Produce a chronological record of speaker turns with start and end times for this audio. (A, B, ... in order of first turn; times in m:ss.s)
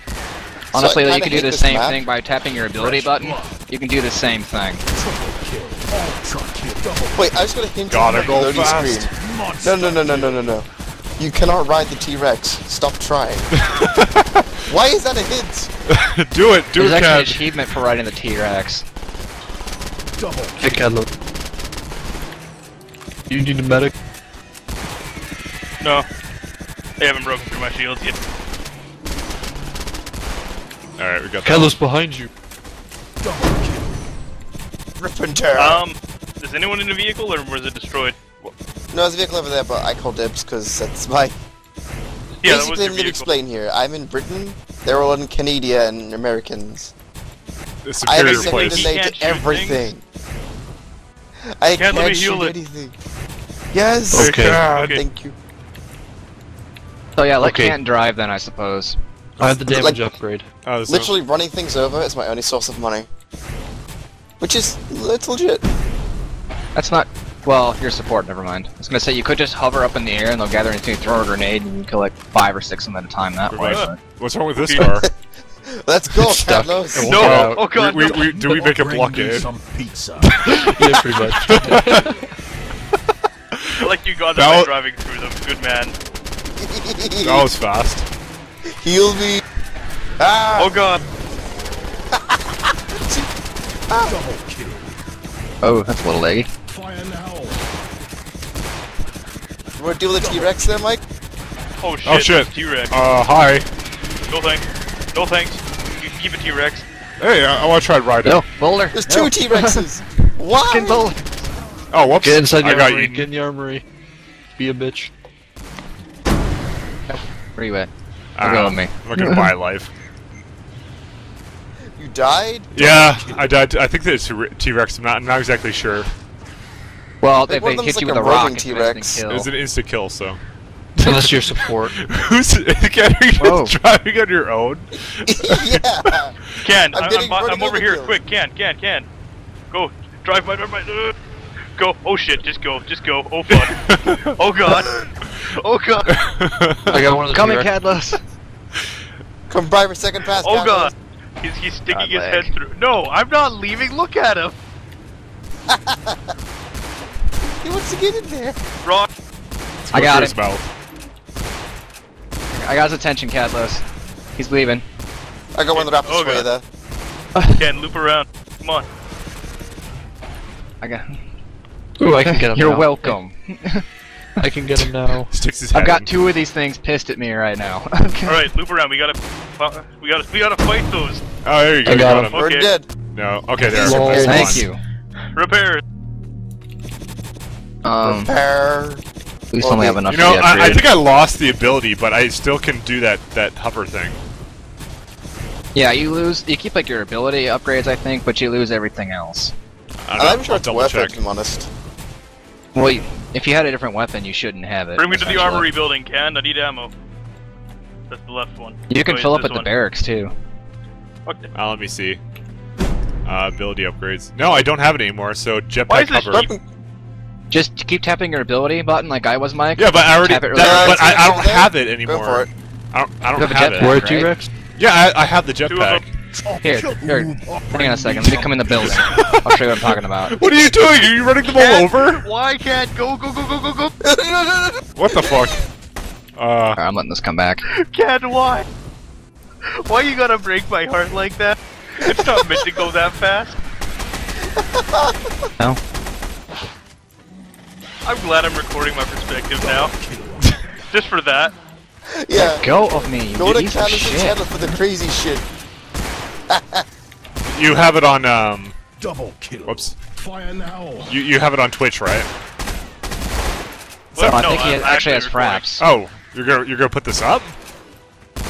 0:00.7-0:04.8 A
0:00.7-0:02.0 B
0:02.7-0:03.6 C
0:04.9-0:07.3 C
0:07.2-0:09.1 B
0:07.9-0:09.0 D
0:08.0-0:10.5 C
0:09.6-0:10.6 B
0:11.2-0:13.4 B
0:13.5-0:14.6 D
0:14.7-0:15.7 B
0:15.9-0:17.5 D
0:16.8-0:18.8 A
0:20.2-0:20.9 C
0:20.6-0:21.0 E
0:23.3-0:23.9 E
0:25.8-0:26.1 F
0:27.0-0:28.2 F
0:31.0-0:31.8 D
0:31.4-0:32.3 E
0:33.2-0:34.1 C
0:35.0-0:35.8 B
0:35.5-0:38.2 F
0:38.9-0:41.4 B
0:42.4-0:43.3 F
0:42.4-0:46.9 B
0:47.8-0:48.9 D
0:48.0-0:50.0 B
0:48.2-0:49.9 F
0:51.6-0:52.9 B
0:51.7-0:52.5 F
0:53.7-0:55.3 B
0:54.1-0:54.6 E
0:54.1-0:54.6 D
0:54.6-0:55.0 F
0:57.2-0:59.0 A
0:57.4-0:57.8 E
0:59.4-1:00.4 E
0:59.4-1:00.0 B
1:00.6-1:01.1 D
1:00.9-1:03.1 B
1:04.4-1:05.6 B
1:06.7-1:14.0 A
1:13.5-1:15.1 D
1:14.6-1:15.0 F
1:14.8-1:15.1 B
1:15.7-1:17.2 B
1:16.2-1:17.6 E
1:17.0-1:19.5 D
1:17.0-1:18.4 F
1:18.3-1:20.5 C
1:20.5-1:22.1 E
1:21.5-1:22.1 D
1:23.5-1:24.7 D
1:23.8-1:25.9 F
1:26.6-1:27.5 B
1:27.2-1:28.1 D
1:28.7-1:29.4 B
1:30.2-1:30.8 B
1:30.6-1:31.0 F
1:32.1-1:33.3 B
1:34.0-1:35.0 C
1:35.6-1:36.5 A
1:36.7-1:37.7 C
1:39.8-1:41.0 B
1:40.2-1:40.8 C
1:41.8-1:43.0 F
1:42.0-1:43.7 D
1:44.3-1:46.8 F
1:47.2-1:48.4 D
1:48.2-1:49.8 A
1:48.9-1:51.1 B
1:50.6-1:51.5 A
1:51.9-1:53.3 D
1:52.2-1:53.8 E
1:54.6-1:55.1 E
1:57.1-1:57.9 A
1:58.4-1:59.9 D
1:58.4-1:59.5 A
2:02.0-2:02.7 B
2:02.7-2:06.1 D
2:02.8-2:03.5 C
2:07.2-2:09.5 A
2:07.4-2:09.2 B
2:09.3-2:10.4 D
2:11.0-2:16.6 D
2:11.0-2:12.0 E
2:13.4-2:13.7 A
2:15.2-2:16.3 B
2:16.6-2:19.1 F
2:16.9-2:18.2 B
2:19.7-2:21.1 F
2:21.8-2:26.1 F
2:23.5-2:24.4 D
2:26.1-2:27.0 D
2:26.9-2:27.7 E
2:27.3-2:28.2 A
2:29.5-2:30.9 B
2:30.4-2:34.5 F
2:31.9-2:32.5 A
2:35.7-2:36.3 B
2:37.6-2:38.6 B
2:39.9-2:40.7 D
2:39.9-2:40.4 A
2:42.6-2:43.8 A
2:44.3-2:44.8 A
2:45.5-2:46.6 B
2:45.7-2:46.5 F
2:47.3-2:47.7 A
2:47.6-2:48.9 F
2:50.8-2:51.2 A
2:52.0-2:53.2 E
2:52.2-2:53.8 A
2:54.4-2:55.3 E
2:55.3-2:56.1 D
2:55.7-2:58.5 A
2:58.2-3:01.2 F
3:01.4-3:02.5 D
3:01.8-3:02.3 E
3:02.3-3:02.7 F
3:02.3-3:02.9 B
3:03.1-3:04.7 D
3:03.7-3:04.6 E
3:03.7-3:04.8 A
3:05.3-3:05.8 F
3:07.8-3:08.3 A
3:08.2-3:09.0 B
3:09.5-3:10.8 A
3:09.6-3:10.0 B
3:10.1-3:14.2 D
3:15.7-3:19.5 A
3:20.0-3:21.2 D
3:20.2-3:21.7 B
3:22.7-3:25.7 A
3:25.0-3:26.9 F
3:28.1-3:29.7 F
3:28.9-3:30.3 A
3:31.5-3:32.2 D
3:33.2-3:36.5 D
3:35.9-3:36.5 F
3:36.3-3:36.6 B
3:37.5-3:41.3 A
3:39.8-3:44.0 D
3:40.5-3:42.5 B
3:43.4-3:44.3 A
3:43.8-3:44.5 E
3:44.8-3:46.1 D
3:45.7-3:46.0 F
3:46.3-3:49.4 C
3:46.6-3:50.3 A
3:48.8-3:52.3 D
3:51.4-3:53.9 F
3:54.0-3:55.4 B
3:55.0-3:55.6 D
3:56.4-3:56.8 D
3:56.8-3:57.6 A
3:57.7-3:58.6 F
3:59.7-4:03.6 F
4:02.0-4:02.6 B
4:04.5-4:05.2 B
4:08.0-4:09.9 F
4:09.6-4:10.5 C
4:10.9-4:11.5 F
4:12.1-4:15.4 B
4:12.4-4:14.4 A
4:16.5-4:16.8 B
4:17.4-4:18.8 D
4:19.0-4:21.2 C
4:19.7-4:19.9 D
4:21.1-4:22.3 D
4:24.1-4:25.7 F
4:24.1-4:24.7 D
4:24.3-4:25.8 A
4:25.8-4:27.6 D